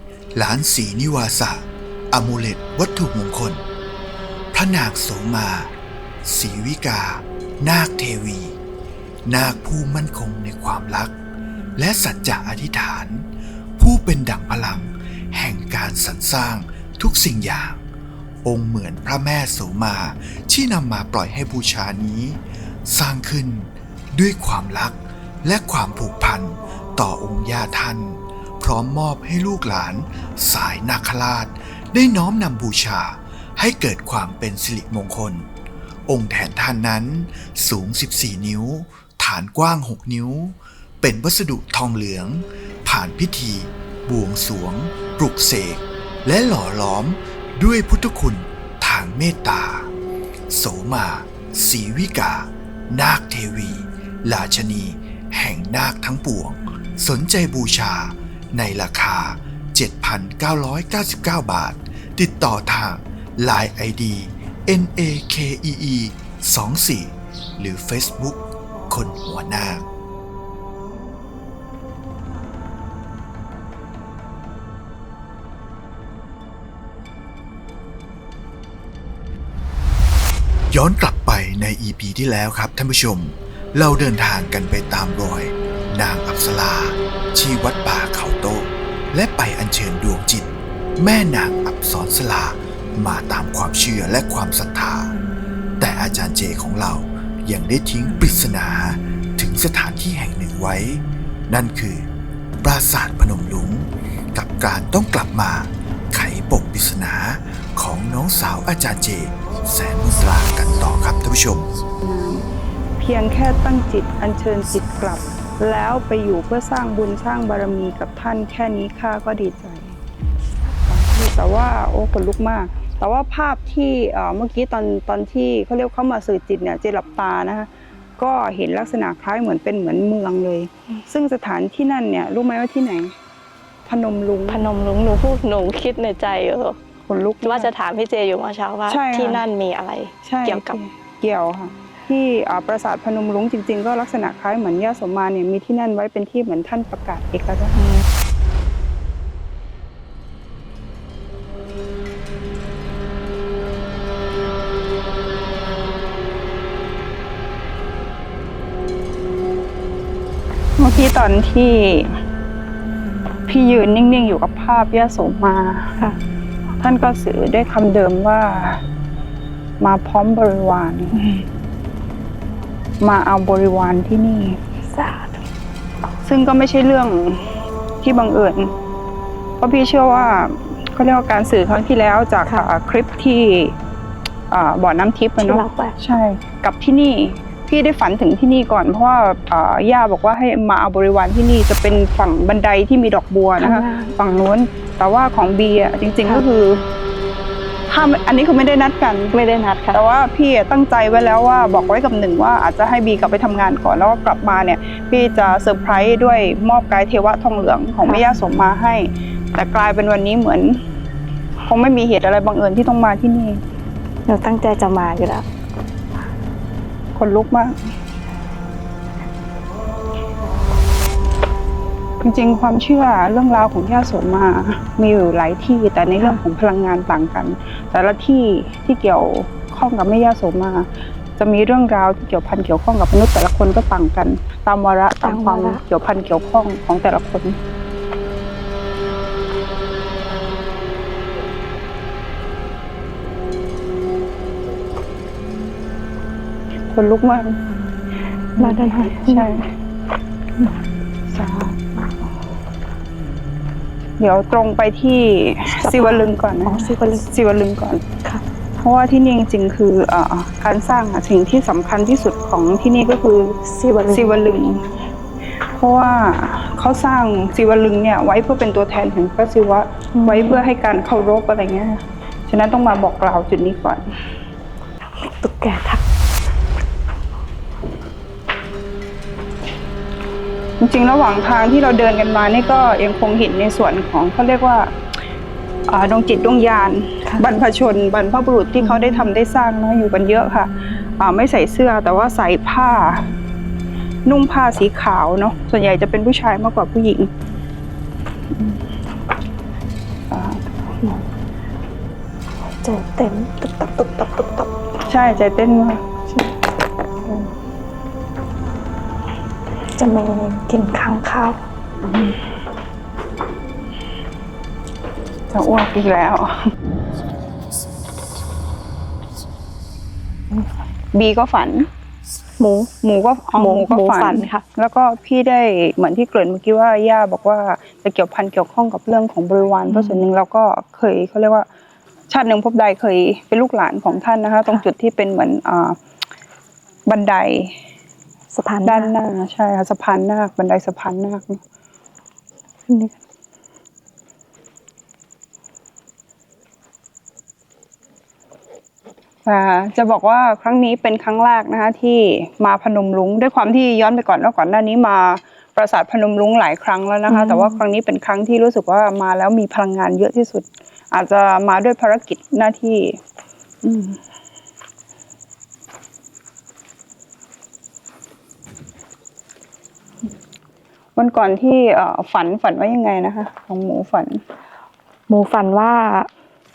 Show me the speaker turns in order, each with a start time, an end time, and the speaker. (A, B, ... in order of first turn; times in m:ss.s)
0:00.3-0:03.6 A
0:04.5-0:05.7 A
0:06.2-0:08.6 A
0:09.2-0:11.1 A
0:11.8-0:13.2 A
0:13.8-0:17.8 A
0:18.4-0:35.4 A
0:36.1-0:49.9 A
0:50.5-1:09.8 A
1:20.7-1:35.1 A
1:35.8-1:42.0 A
1:42.6-1:51.7 A
1:52.0-1:52.5 B
1:53.0-2:00.0 B
2:00.8-2:13.1 B
2:13.8-2:14.6 B
2:14.5-2:16.8 C
2:17.0-2:17.7 B
2:17.4-2:20.8 C
2:18.9-2:19.4 B
2:20.2-2:27.8 B
2:40.8-2:42.2 B
2:43.5-2:45.9 B
2:46.8-2:48.8 B
2:49.8-2:51.4 B
2:53.0-2:54.6 B
2:54.9-2:55.4 C
2:56.2-2:57.4 B
2:58.0-2:58.7 B
2:59.6-3:03.8 B
3:04.5-3:16.8 B
3:05.4-3:06.0 C
3:13.6-3:14.2 C
3:17.9-3:19.3 B
3:19.3-3:20.0 C
3:19.9-3:30.8 B
3:28.0-3:28.4 C
3:31.6-3:33.6 B
3:34.2-3:35.4 C
3:37.1-3:37.9 B
3:42.2-3:57.6 B
3:55.2-3:55.8 C
4:06.9-4:07.6 B
4:08.6-4:09.7 B
4:08.6-4:09.6 C
4:11.3-4:12.1 B
4:14.2-4:18.0 B
4:15.7-4:17.3 C
4:18.8-4:23.6 B
4:23.6-4:24.4 C
4:24.1-4:24.9 B
4:25.7-4:34.0 B
4:30.1-4:30.6 C
4:35.2-4:36.0 C
4:40.8-4:44.9 B
4:45.9-4:53.3 B
4:48.8-4:49.3 C
4:54.2-4:57.3 B
5:00.3-5:01.2 B
5:02.8-5:04.8 C
5:05.0-5:06.0 B
5:06.3-5:06.6 C
5:09.9-5:11.6 C
5:12.0-5:12.4 B
5:15.5-5:16.7 B
5:21.1-5:21.9 B
5:22.6-5:22.9 C
5:23.0-5:31.7 B
5:23.5-5:24.6 C
5:29.9-5:30.2 C
5:32.3-5:36.0 B
5:37.1-5:37.7 B
5:38.5-5:39.1 C
5:38.8-5:41.6 B
5:42.9-5:43.1 C
5:49.4-6:03.2 B
5:57.3-5:57.8 C
6:03.8-6:04.2 B
6:11.2-6:14.4 B
6:15.3-6:16.3 C